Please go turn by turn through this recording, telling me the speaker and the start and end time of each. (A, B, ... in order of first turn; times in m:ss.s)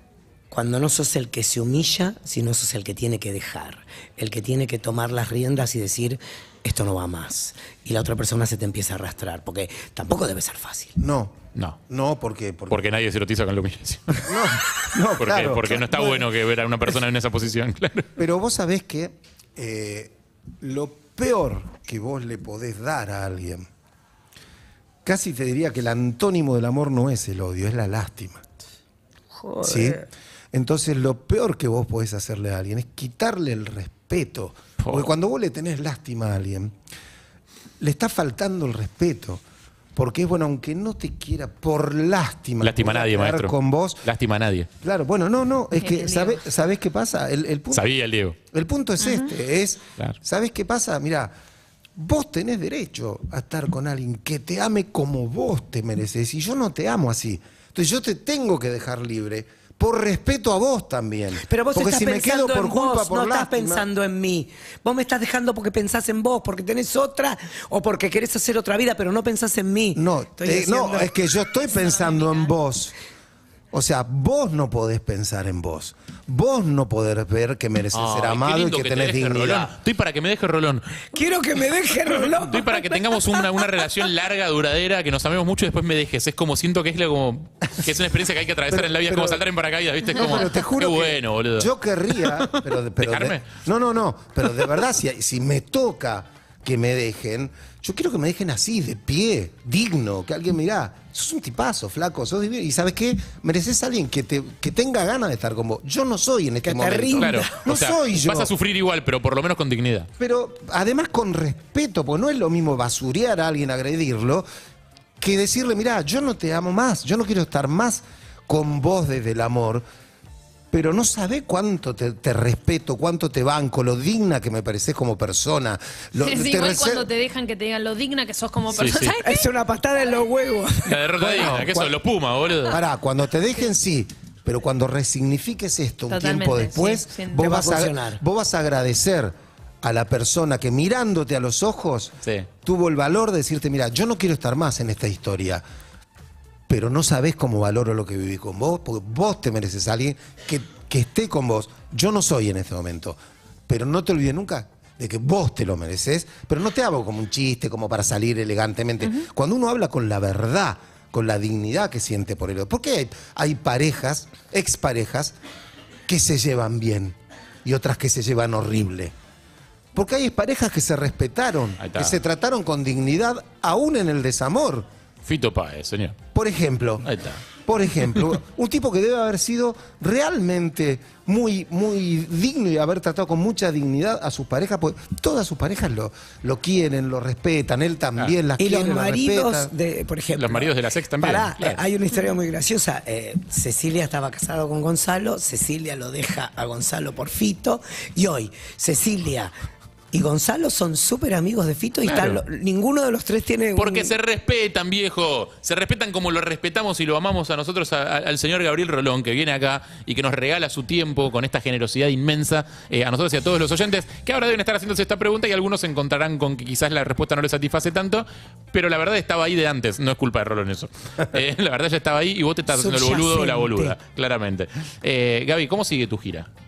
0:00.5-0:11.0 A
0:11.0-0:11.4 B
0:11.5-0:11.8 C
0:11.9-0:12.8 B
0:12.7-0:14.5 C
0:14.2-0:16.3 B
0:15.1-0:18.1 C
0:18.2-0:23.7 B
0:25.0-0:28.4 B
0:29.4-0:29.9 A
0:29.6-0:36.7 B
0:34.8-0:35.1 C
0:37.8-0:39.4 B
0:39.9-0:44.1 B
0:42.6-0:44.7 C
0:44.8-0:51.3 B
0:45.8-0:46.4 D
0:47.7-0:48.4 C
0:49.0-0:49.3 D
0:52.0-1:03.9 B
1:01.4-1:11.1 A
1:09.9-1:12.9 B
1:11.6-1:12.5 D
1:13.7-1:19.7 B
1:17.9-1:21.0 C
1:21.1-1:23.8 A
1:22.3-1:33.5 C
1:28.7-1:29.4 B
1:30.1-1:48.5 B
1:46.6-1:47.5 A
1:47.2-1:50.1 C
1:50.2-1:54.5 B
1:55.2-1:59.8 B
2:00.7-2:07.1 B
2:06.2-2:09.4 D
2:08.7-2:09.2 C
2:09.2-2:11.0 A
2:10.8-2:12.8 C
2:11.2-2:12.0 B
2:12.6-2:25.6 B
2:16.1-2:17.5 D
2:17.4-2:18.2 A
2:22.2-2:22.5 C
2:26.7-2:45.4 B
2:46.1-2:49.1 B
2:49.9-2:54.9 B
2:51.8-2:52.2 C
2:55.2-2:56.2 C
2:56.3-3:09.7 B
2:57.0-2:57.4 C
3:08.6-3:19.5 A
3:10.4-3:11.8 C
3:20.1-3:24.1 A
3:22.0-3:22.4 C
3:23.8-3:46.5 C
3:42.7-3:44.0 A